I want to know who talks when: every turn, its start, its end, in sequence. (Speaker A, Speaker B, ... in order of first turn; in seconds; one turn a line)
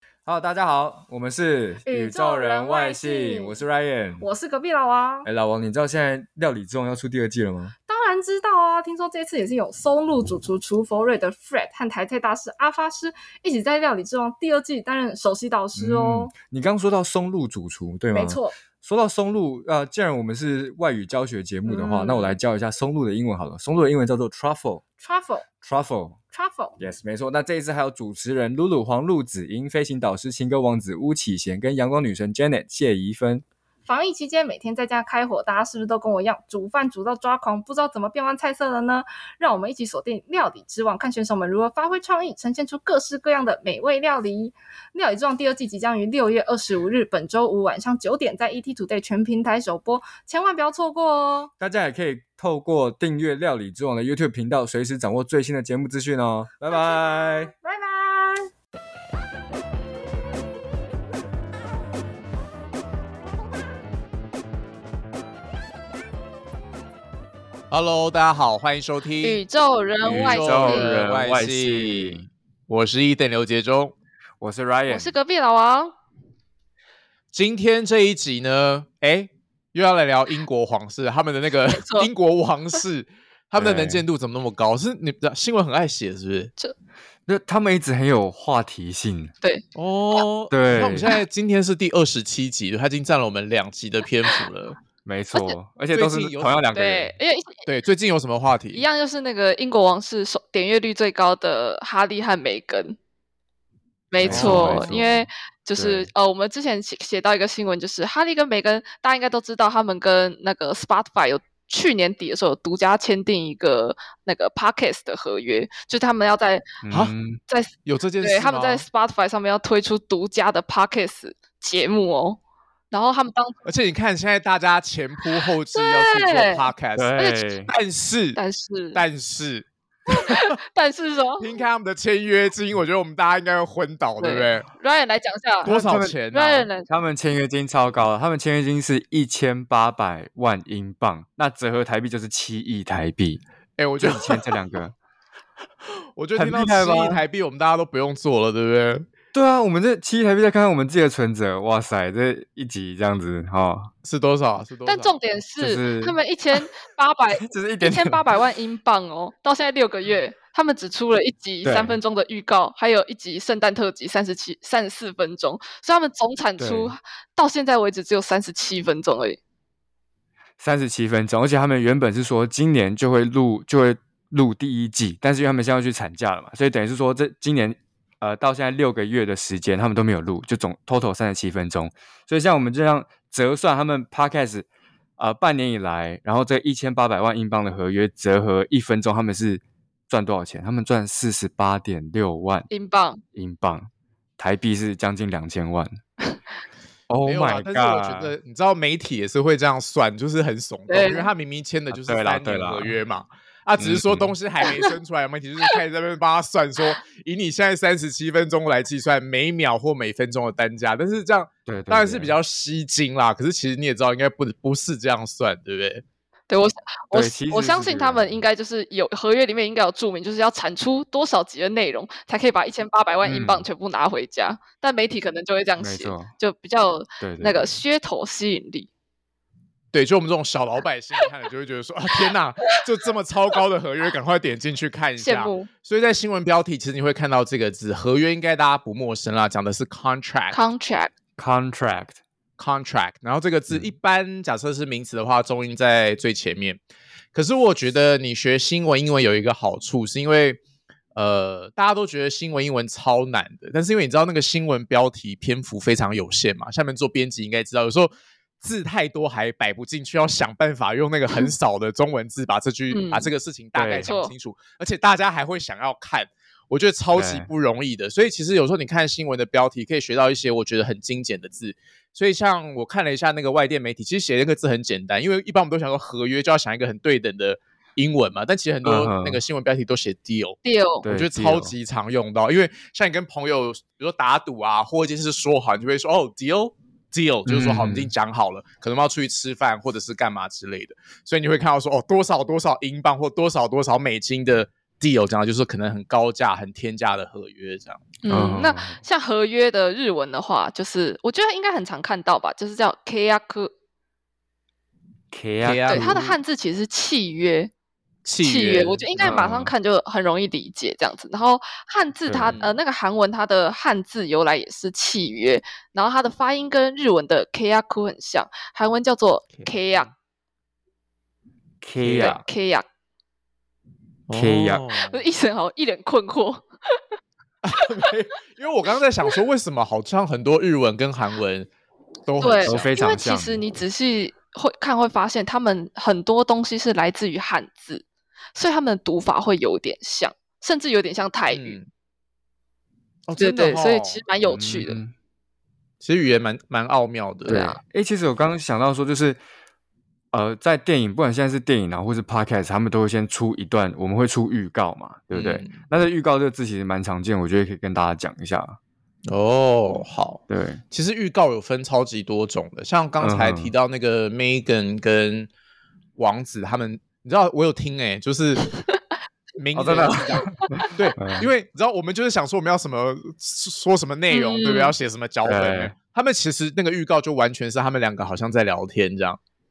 Speaker A: 0.2-4.2
Speaker B: 1.9-3.6
Speaker B: 4.2-5.3
Speaker A: 5.2-7.7
Speaker B: 7.9-16.3
Speaker A: 15.7-24.8
Speaker B: 18.1-18.5
Speaker B: 21.7-22.3
Speaker B: 25.0-25.5
Speaker A: 25.6-26.2
Speaker B: 26.3-26.8
Speaker A: 26.8-33.4
Speaker B: 33.9-51.5
Speaker A: 51.6-57.5
Speaker B: 56.7-58.5
Speaker C: 67.7-69.4
Speaker D: 69.2-70.9
Speaker C: 70.0-73.9
Speaker A: 70.0-72.3
Speaker A: 74.4-75.1
Speaker D: 74.9-75.9
Speaker C: 77.3-86.5
Speaker D: 81.7-82.1
Speaker A: 83.5-84.0
Speaker A: 87.3-89.3
Speaker C: 89.7-94.8
Speaker A: 90.5-91.1
Speaker A: 95.0-97.2
Speaker C: 95.9-96.6
Speaker D: 96.7-97.6
Speaker C: 97.7-98.8
Speaker D: 98.7-103.0
Speaker D: 104.1-116.6
Speaker A: 104.2-106.1
Speaker C: 104.2-104.8
Speaker A: 116.8-117.4
Speaker D: 117.5-122.4
Speaker C: 117.8-118.8
Speaker D: 122.9-123.5
Speaker C: 123.6-128.4
Speaker D: 125.7-126.7
Speaker A: 127.0-127.7
Speaker D: 128.3-129.0
Speaker C: 128.9-130.5
Speaker D: 130.1-131.6
Speaker C: 131.4-134.7
Speaker D: 134.2-135.7
Speaker C: 135.6-136.7
Speaker A: 135.7-136.2
Speaker D: 136.3-136.9
Speaker A: 136.9-143.4
Speaker C: 143.8-144.6
Speaker A: 144.0-144.9
Speaker C: 146.2-149.1
Speaker A: 146.3-147.2
Speaker A: 149.3-153.9
Speaker C: 154.0-155.1
Speaker D: 154.8-169.4
Speaker A: 155.6-156.2
Speaker A: 157.3-158.3
Speaker A: 161.6-162.0
Speaker A: 166.6-166.9
Speaker A: 170.6-184.7
Speaker A: 185.2-192.7
Speaker D: 192.7-193.2
Speaker A: 193.3-196.0
Speaker A: 197.1-198.3
Speaker C: 197.2-216.0
Speaker D: 200.9-201.3
Speaker A: 201.9-202.9
Speaker A: 203.8-204.3
Speaker D: 204.6-204.9
Speaker A: 211.7-212.3
Speaker D: 216.5-228.9
Speaker A: 217.1-218.4
Speaker A: 223.2-223.7
Speaker A: 225.8-226.3
Speaker A: 227.2-227.8
Speaker C: 229.9-240.6
Speaker D: 235.2-235.7
Speaker D: 240.5-241.1
Speaker A: 241.4-242.2
Speaker C: 242.6-246.8
Speaker C: 247.3-250.6
Speaker C: 251.1-298.1
Speaker D: 262.9-263.3
Speaker A: 263.7-264.1
Speaker D: 264.0-264.3
Speaker A: 267.1-267.5
Speaker A: 278.8-279.4
Speaker D: 280.6-281.0
Speaker A: 281.0-281.7
Speaker A: 287.4-288.1
Speaker D: 298.2-303.7
Speaker A: 298.3-299.0
Speaker A: 305.3-306.2
Speaker C: 305.6-306.3
Speaker D: 305.9-307.7
Speaker C: 308.2-309.0
Speaker D: 308.4-320.1
Speaker A: 309.2-309.7
Speaker A: 312.2-312.6
Speaker C: 312.4-312.8
Speaker A: 321.8-322.4
Speaker C: 322.0-322.4
Speaker D: 322.2-322.9
Speaker C: 324.3-325.2
Speaker A: 324.3-324.9
Speaker D: 325.0-327.0
Speaker C: 327.6-331.7
Speaker C: 332.2-332.9
Speaker D: 332.4-338.0
Speaker A: 332.6-333.8
Speaker D: 338.6-341.8
Speaker C: 341.5-341.9
Speaker C: 343.3-344.2
Speaker D: 343.4-345.0
Speaker A: 344.5-345.1
Speaker C: 346.0-347.6
Speaker A: 347.5-349.4
Speaker D: 347.5-347.8
Speaker A: 350.3-358.8
Speaker C: 355.3-355.8
Speaker C: 359.3-365.5
Speaker A: 360.5-360.8
Speaker A: 363.2-363.7
Speaker C: 366.2-368.6
Speaker C: 369.6-379.4
Speaker A: 369.7-371.5
Speaker D: 370.4-370.9
Speaker D: 374.3-374.9
Speaker A: 375.4-375.9